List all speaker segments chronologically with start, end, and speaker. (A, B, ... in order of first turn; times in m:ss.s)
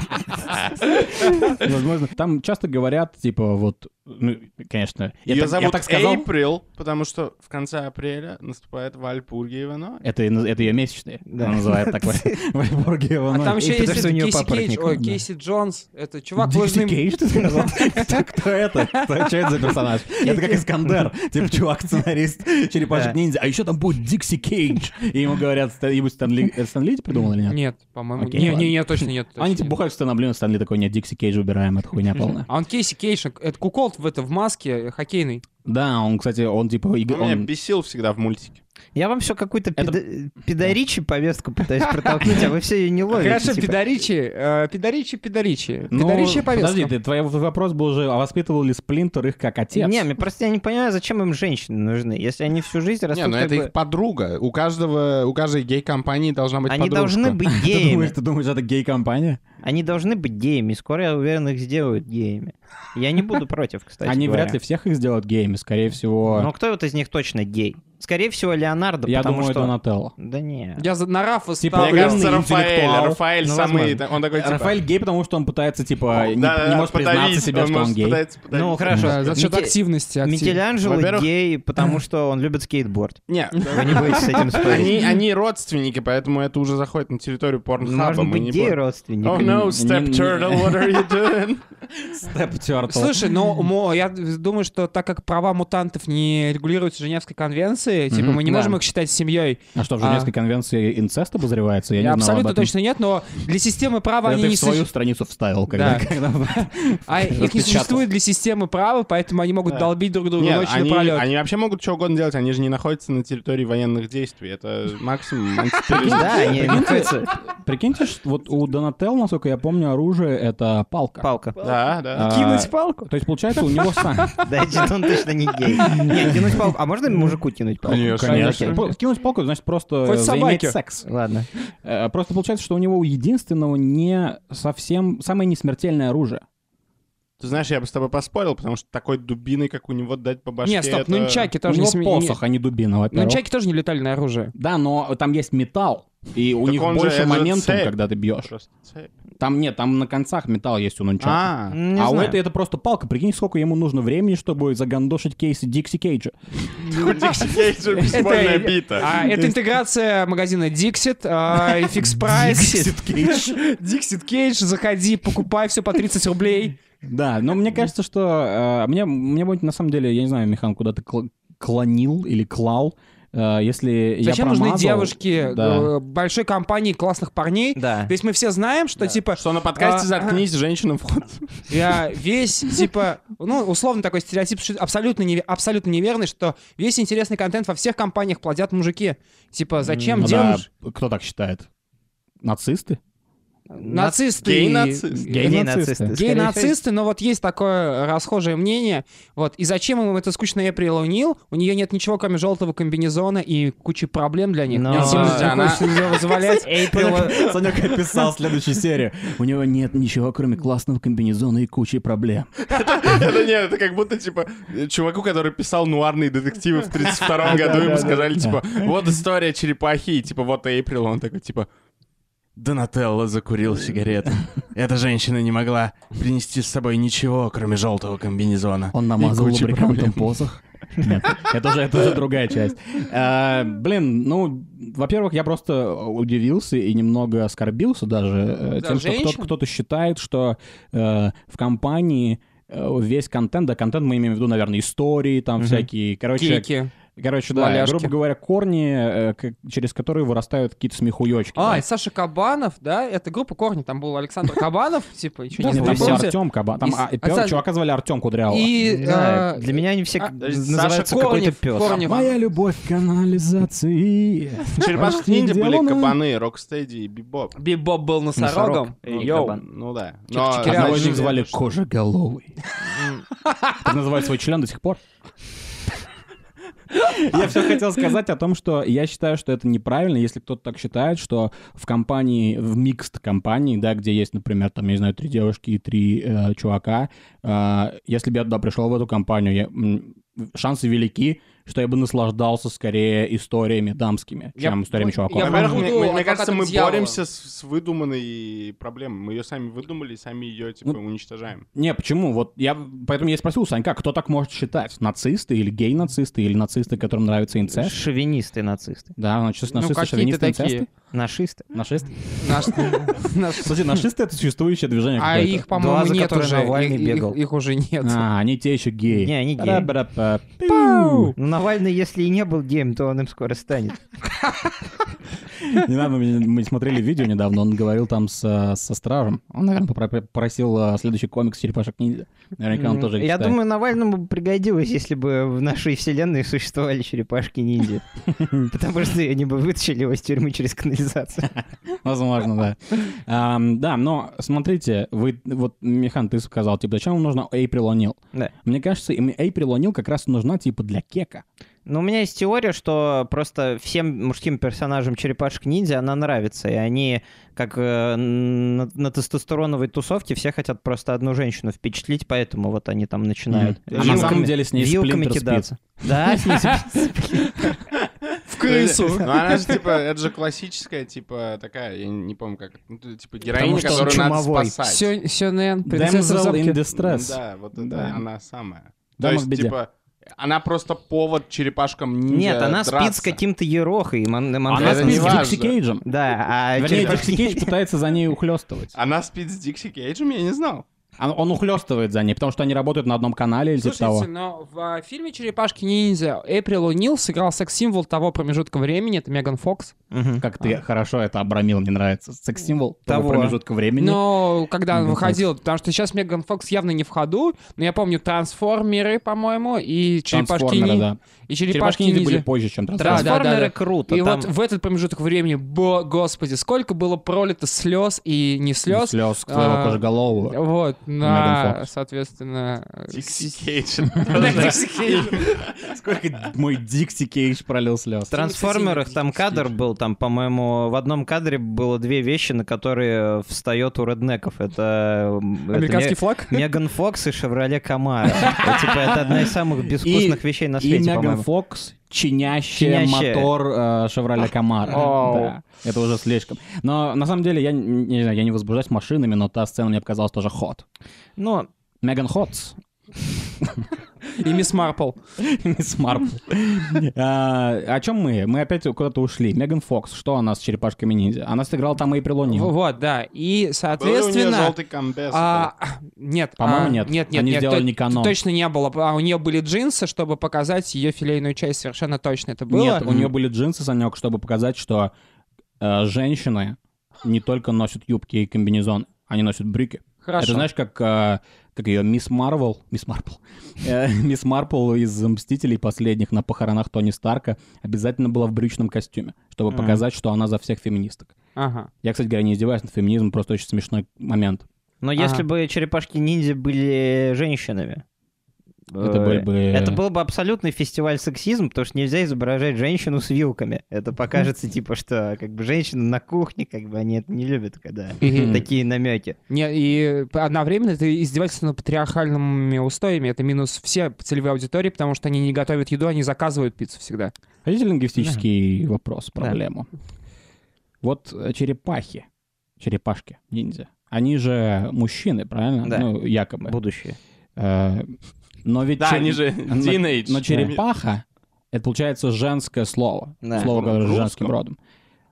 0:01.2-0:06.3 A
0:05.3-0:10.0 B
0:10.0-0:13.9 A
0:11.3-0:12.4 C
0:13.3-0:19.5 D
0:13.6-0:15.0 C
0:16.4-0:27.6 A
0:20.2-0:21.0 C
0:22.9-0:23.2 C
0:27.5-0:29.8 D
0:28.2-0:32.5 A
0:32.5-0:35.4 D
0:35.6-0:37.5 A
0:37.1-0:38.6 B
0:39.0-0:43.8 C
0:41.8-0:42.5 D
0:43.1-0:46.9 D
0:45.9-0:50.0 A
0:49.7-0:53.7 C
0:53.1-0:57.4 B
0:56.7-0:58.1 C
0:57.5-0:59.4 A
0:59.6-1:04.6 C
1:04.0-1:06.5 A
1:06.3-1:10.9 C
1:09.1-1:10.1 A
1:10.8-1:12.4 D
1:11.6-1:13.2 A
1:11.8-1:14.8 B
1:13.4-1:14.0 C
1:14.3-1:18.2 A
1:16.1-1:19.4 B
1:18.5-1:25.0 C
1:18.9-1:20.6 D
1:20.8-1:21.3 B
1:23.3-1:31.7 B
1:23.8-1:24.5 D
1:27.8-1:29.6 C
1:29.3-1:31.3 A
1:32.0-1:33.3 A
1:32.9-1:40.3 D
1:38.1-1:38.4 A
1:38.4-1:38.8 C
1:39.8-1:42.7 A
1:42.0-1:44.9 D
1:44.2-1:48.0 A
1:45.7-1:46.1 D
1:47.1-1:51.3 D
1:49.7-1:56.8 B
1:55.9-2:01.2 A
1:55.9-1:57.3 C
2:01.2-2:01.6 C
2:01.6-2:02.4 B
2:02.1-2:04.5 A
2:02.2-2:04.0 D
2:04.4-2:08.8 C
2:05.8-2:06.6 A
2:07.8-2:08.8 B
2:07.9-2:11.1 A
2:10.0-2:10.8 D
2:11.0-2:11.5 C
2:11.8-2:16.4 A
2:17.4-2:21.5 B
2:20.6-2:22.4 D
2:21.6-2:23.4 A
2:23.1-2:24.5 D
2:24.6-2:28.5 A
2:26.6-2:29.2 B
2:29.4-2:36.4 A
2:31.2-2:31.8 B
2:31.7-2:32.4 C
2:36.8-2:39.1 B
2:37.0-2:46.8 D
2:39.3-2:39.6 A
2:41.8-2:43.6 A
2:47.0-2:55.9 A
2:54.2-3:00.4 D
2:57.8-2:58.1 C
2:59.1-3:01.8 B
3:01.7-3:10.7 D
3:09.8-3:10.6 C
3:10.2-3:11.7 A
3:12.4-3:13.0 A
3:13.7-3:14.2 C
3:13.8-3:27.6 D
3:14.4-3:15.4 B
3:15.2-3:16.1 A
3:15.3-3:16.8 C
3:24.7-3:25.7 C
3:24.9-3:33.2 A
3:24.9-3:26.2 B
3:26.6-3:27.4 C
3:32.7-3:41.7 B
3:37.2-3:38.8 A
3:37.6-3:38.2 D
3:37.6-3:38.1 C
3:42.6-3:50.4 B
3:48.9-4:11.8 A
3:58.8-3:59.5 D
4:05.6-4:05.9 C
4:06.4-4:06.9 D
4:07.5-4:08.1 D
4:11.6-4:17.6 D
4:15.6-4:16.2 C
4:15.7-4:18.7 A
4:18.5-4:22.4 D
4:18.8-4:22.0 C
4:20.4-4:20.9 B
4:22.0-4:26.2 A
4:24.8-4:27.5 B
4:27.6-4:29.6 D
4:28.4-4:29.6 C
4:29.2-4:31.5 B
4:30.3-4:31.4 D
4:30.6-4:32.5 A
4:32.9-4:33.8 D
4:33.8-4:35.0 A
4:36.9-4:55.9 A
4:54.6-4:57.2 D
4:55.4-5:01.7 B
5:01.8-5:08.0 A
5:07.7-5:09.2 C
5:09.2-5:10.9 A
5:09.7-5:10.9 D
5:11.1-5:11.7 C
5:11.7-5:15.7 A
5:12.4-5:14.0 D
5:15.2-5:18.2 D
5:15.7-5:17.4 C
5:18.0-5:21.4 A
5:19.1-5:19.9 C
5:20.7-5:21.3 D
5:21.4-5:24.0 C
5:25.6-5:33.6 A
5:32.7-5:38.0 C
5:38.6-5:41.5 C
5:41.5-5:51.4 A
5:51.9-6:07.8 C
6:03.5-6:05.7 A
6:03.9-6:04.4 B
6:06.4-6:06.8 D
6:08.5-6:09.8 D
6:08.6-6:15.1 B
6:13.5-6:14.8 C
6:13.6-6:14.2 A
6:14.8-6:16.8 D
6:15.8-6:18.2 A
6:16.9-6:23.4 B
6:19.2-6:19.8 A
6:22.3-6:27.7 C
6:24.7-6:26.0 A
6:24.7-6:25.8 B
6:26.8-6:28.9 A
6:26.9-6:27.2 B
6:29.0-6:30.8 B
6:31.2-6:34.3 A
6:33.8-6:40.0 D
6:40.1-6:40.4 C
6:40.4-6:44.2 A
6:43.1-6:43.6 C
6:44.0-7:03.6 D
6:44.9-6:45.4 A
6:50.3-6:51.2 A
6:51.7-6:53.4 A
6:53.0-6:54.5 C
6:58.9-7:00.6 A
7:01.2-7:01.8 A
7:03.1-7:05.7 B
7:04.2-7:05.5 D
7:04.4-7:04.8 A
7:05.8-7:08.3 A
7:08.3-7:21.5 C
7:08.3-7:09.7 D
7:15.7-7:16.7 D
7:18.4-7:19.0 D
7:19.9-7:30.8 A
7:22.7-7:23.5 C
7:24.9-7:25.5 D
7:31.4-7:31.7 C
7:32.0-7:32.8 A
7:33.6-7:33.9 A
7:34.3-7:35.2 D
7:35.4-7:42.7 A
7:42.5-7:44.8 D
7:43.9-7:45.7 B
7:45.3-7:53.3 D
7:46.6-7:48.4 A
7:52.7-7:55.1 A
7:55.8-8:11.3 A
8:00.2-8:00.7 D
8:09.7-8:10.0 C
8:11.6-8:11.9 D
8:12.0-8:14.6 A
8:15.0-8:18.0 C
8:15.2-8:15.4 D
8:18.9-8:29.4 C
8:19.0-8:20.0 A
8:28.2-8:28.6 D
8:28.2-8:28.6 A
8:29.5-8:37.3 D
8:37.6-8:39.9 A
8:41.0-8:42.3 A
8:42.8-8:46.8 A
8:46.6-8:47.2 C
8:47.6-8:48.1 A
8:48.6-8:54.8 A
8:49.0-8:50.8 B
8:53.4-8:53.7 C
8:53.6-8:54.5 B